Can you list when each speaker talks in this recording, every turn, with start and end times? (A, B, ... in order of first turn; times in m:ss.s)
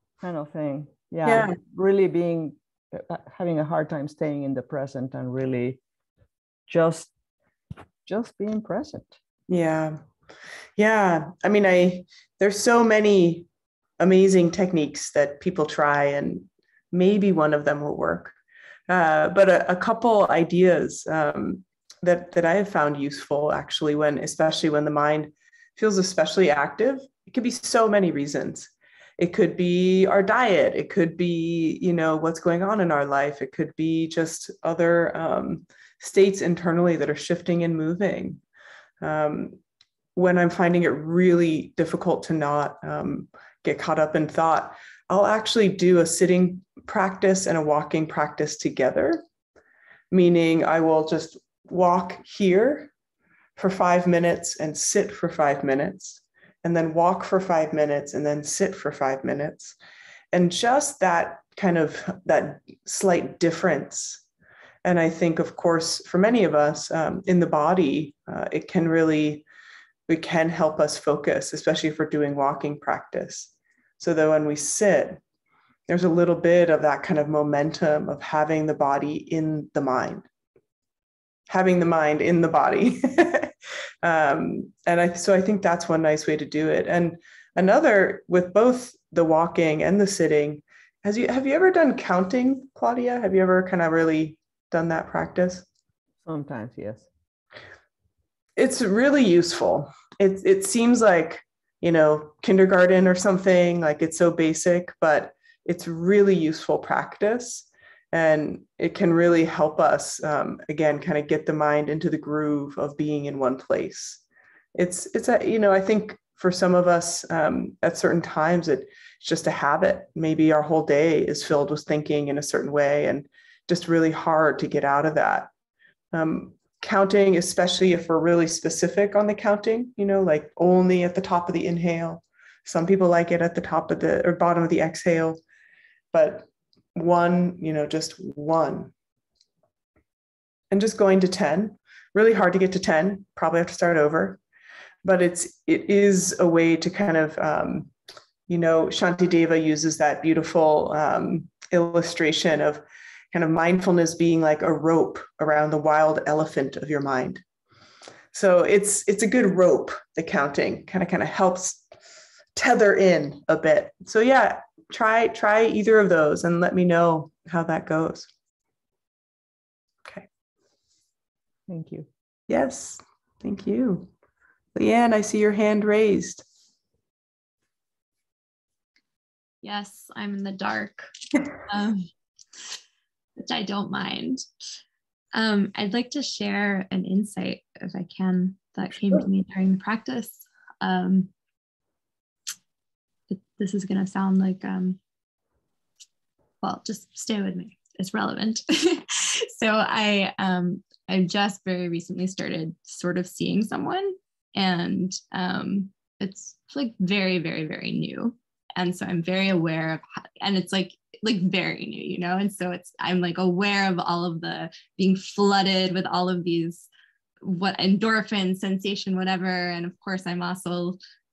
0:00.2-0:05.8 A
0:01.2-0:01.5 B
0:06.7-0:07.1 A
0:08.0-0:09.2 A
0:09.5-0:10.0 B
0:10.8-0:13.5 B
0:14.0-0:18.4 B
0:18.9-0:38.4 B
0:39.0-0:39.6 B
0:40.1-0:49.2 B
0:50.1-0:52.9 B
0:53.6-0:59.8 B
1:00.3-1:04.2 B
1:04.8-1:09.4 B
1:10.1-1:15.2 B
1:15.9-1:20.2 B
1:21.5-1:23.5 B
1:24.0-1:35.6 B
1:36.2-1:37.1 A
1:38.6-1:54.2 B
1:54.7-2:05.5 B
2:06.1-2:15.4 B
2:16.1-2:18.9 B
2:20.7-2:24.4 B
2:25.0-2:27.9 B
2:28.5-2:37.4 B
2:38.3-2:41.8 B
2:42.5-2:48.3 B
2:51.7-2:52.1 A
2:52.5-2:54.1 B
2:54.7-2:56.4 B
2:59.6-3:01.1 C
3:01.7-3:02.1 C
3:03.4-3:04.4 C
3:05.3-3:11.3 C
3:13.3-3:15.0 C
3:16.6-3:36.9 C
3:37.4-3:41.0 C